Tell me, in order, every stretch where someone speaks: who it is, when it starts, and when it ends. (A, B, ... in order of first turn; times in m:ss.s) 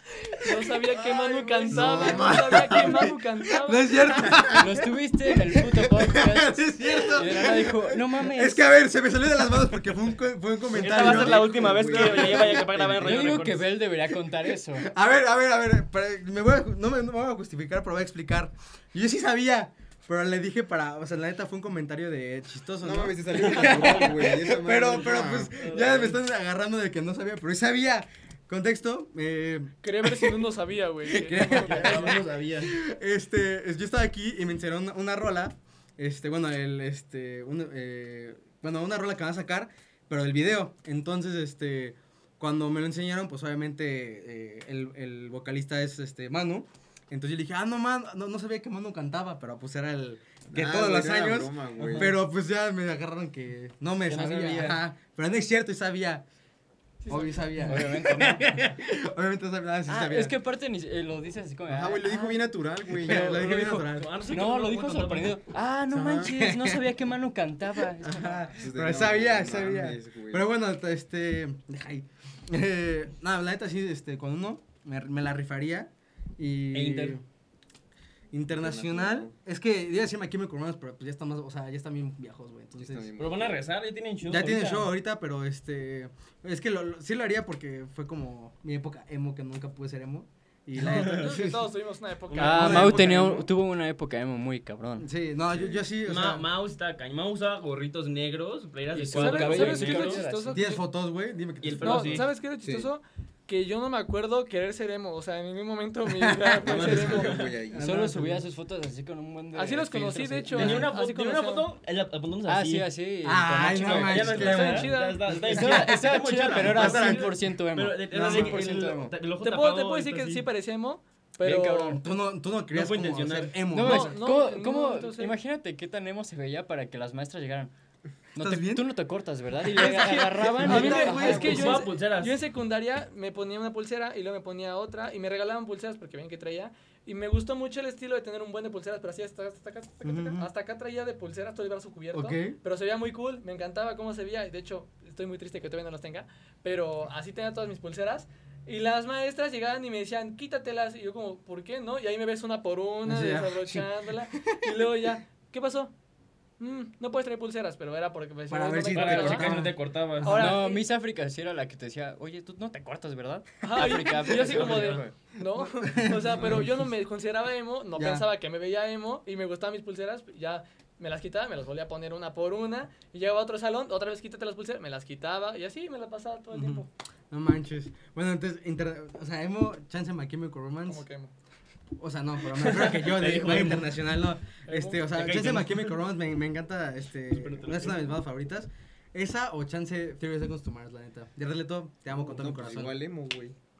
0:00.4-0:12.8 A
0:00.4-0:04.4 B
0:01.7-0:03.2 C
0:04.2-0:04.6 C
0:04.6-0:08.6 D
0:10.7-0:13.6 E
0:10.7-0:13.4 C
0:13.0-0:14.9 D
0:14.8-0:30.5 A
0:22.8-0:25.5 C
0:23.6-0:24.0 E
0:25.0-0:26.2 E
0:29.8-0:32.3 B
0:31.0-0:56.2 A
0:31.3-0:32.8 E
0:50.5-0:52.2 C
0:54.0-0:54.8 E
0:57.0-0:57.6 B
0:57.1-1:00.3 A
0:57.6-0:58.6 D
0:59.9-1:08.5 D
1:01.6-1:03.4 C
1:03.0-1:04.1 A
1:03.4-1:05.4 E
1:05.9-1:06.9 A
1:05.9-1:06.3 C
1:07.8-1:17.2 A
1:08.6-1:10.4 C
1:16.7-1:17.2 E
1:18.3-1:23.1 A
1:18.5-1:19.3 C
1:22.8-1:23.6 C
1:23.2-1:24.9 E
1:24.3-1:31.7 A
1:30.8-1:33.0 B
1:30.8-1:31.3 E
1:32.3-1:33.1 E
1:32.4-1:35.1 D
1:32.4-1:33.5 A
1:35.0-1:36.4 A
1:35.6-1:40.2 E
1:38.9-1:40.8 D
1:39.1-1:40.8 B
1:40.5-1:42.2 A
1:41.6-1:42.3 E
1:41.8-1:47.5 B
1:42.6-1:42.9 C
1:46.1-1:48.4 A
1:46.6-1:48.0 C
1:46.8-1:47.5 E
1:47.8-1:50.9 D
1:49.5-1:51.7 B
1:50.5-1:52.9 E
1:52.4-1:54.8 D
1:53.2-1:57.3 A
1:53.8-2:00.4 E
1:54.4-1:55.4 B
1:55.4-1:59.0 D
1:56.4-1:56.8 C
1:58.1-1:59.1 A
1:59.4-2:02.0 B
2:01.4-2:02.0 D
2:01.9-2:04.2 A
2:02.7-2:03.6 E
2:03.7-2:07.7 D
2:03.8-2:05.4 B
2:08.4-2:11.8 D
2:08.4-2:08.8 A
2:09.7-2:35.9 B
2:10.4-2:11.8 A
2:11.1-2:12.3 E
2:20.0-2:20.5 A
2:22.1-2:22.6 A
2:33.0-2:35.2 A
2:36.6-2:39.6 B
2:38.5-2:39.8 A
2:38.9-2:40.6 E
2:40.2-2:40.8 B
2:40.2-2:45.1 D
2:43.6-2:56.9 B
2:43.9-2:45.0 E
2:45.6-2:46.7 A
2:46.3-2:46.6 C
2:47.9-2:48.3 A
2:56.5-3:01.0 A
3:00.8-3:01.3 B
3:02.0-3:13.0 A
3:02.5-3:04.0 E
3:04.6-3:05.1 B
3:05.1-3:06.0 E
3:07.3-3:08.2 E
3:12.1-3:13.6 C